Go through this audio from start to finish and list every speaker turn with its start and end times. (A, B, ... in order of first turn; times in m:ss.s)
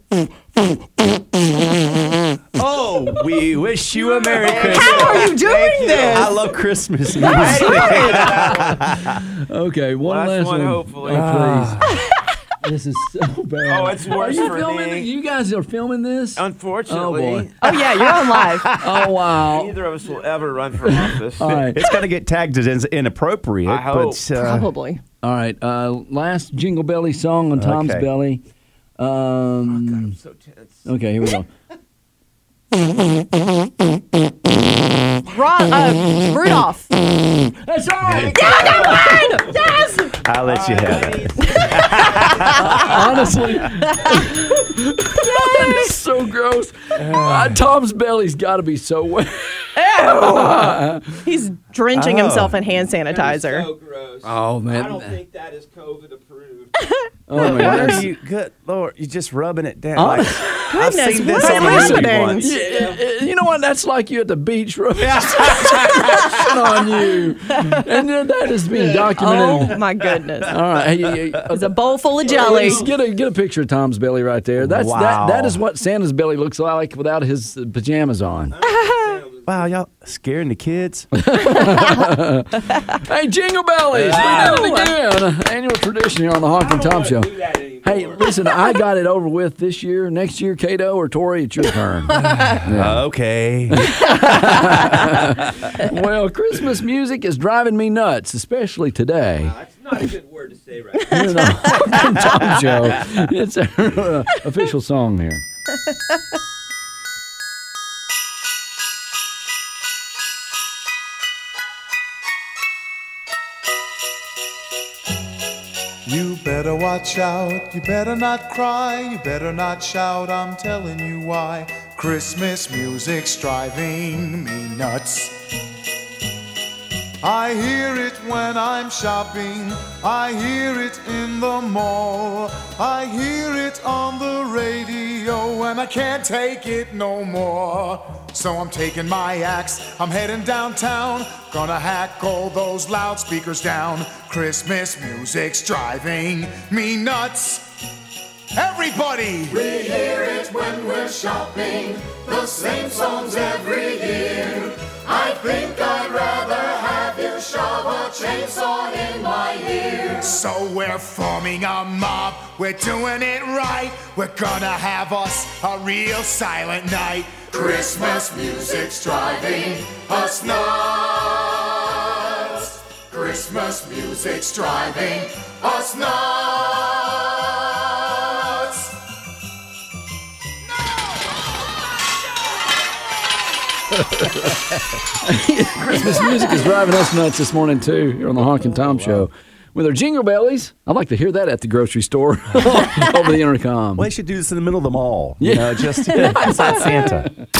0:02.5-0:09.2 A
0:04.1-0:06.4 B
0:04.3-0:06.3 C
0:07.2-0:09.0 C
0:07.3-0:11.8 D
0:10.0-0:11.4 C
0:11.1-0:12.0 A
0:12.6-0:17.5 D
0:13.6-0:15.1 C
0:16.4-0:17.7 C
0:17.6-0:18.8 B
0:18.0-0:19.1 A
0:18.8-0:19.8 D
0:19.4-0:21.6 C
0:20.8-0:21.8 D
0:21.7-0:24.7 A
0:23.6-0:24.2 C
0:24.3-0:25.0 B
0:25.2-0:28.4 D
0:27.6-0:28.1 A
0:29.0-0:30.2 D
0:29.7-0:30.9 C
0:30.8-0:31.5 D
0:35.2-0:36.9 B
0:37.4-0:39.4 D
0:38.0-0:38.6 A
0:38.1-0:39.8 C
0:38.3-0:40.2 B
0:40.1-0:42.8 A
0:40.3-0:43.4 C
0:42.0-0:42.9 B
0:42.4-0:51.2 D
0:43.9-0:44.2 B
0:47.0-0:47.6 A
0:49.8-0:53.7 B
0:51.9-0:52.6 A
0:53.0-0:56.7 C
0:54.2-0:55.2 D
0:57.3-0:58.1 D
0:57.3-1:02.4 A
0:57.4-0:57.7 C
0:57.6-0:57.9 B
1:00.0-1:00.7 D
1:00.7-1:02.6 B
1:01.4-1:09.8 D
1:02.2-1:03.0 C
1:05.0-1:06.6 A
1:07.6-1:07.8 B
1:09.2-1:10.6 B
1:10.5-1:11.7 D
1:11.5-1:12.9 B
1:12.2-1:12.9 C
1:12.2-1:18.6 D
1:14.6-1:15.6 A
1:18.5-1:19.7 C
1:18.7-1:19.1 B
1:19.4-1:21.1 A
1:21.1-1:33.0 D
1:21.7-1:22.1 B
1:23.9-1:24.8 C
1:24.2-1:24.9 B
1:26.6-1:28.4 C
1:32.6-1:34.0 A
1:33.7-1:39.5 D
1:34.8-1:35.1 A
1:39.4-1:42.0 C
1:41.1-1:45.4 D
1:56.0-2:05.5 E
2:07.2-2:27.8 E
2:28.6-2:57.4 E
2:58.0-2:58.9 E
3:03.9-3:14.1 D
3:09.0-3:09.2 A
3:14.0-3:17.3 A
3:15.4-3:17.3 D
3:16.4-3:16.7 B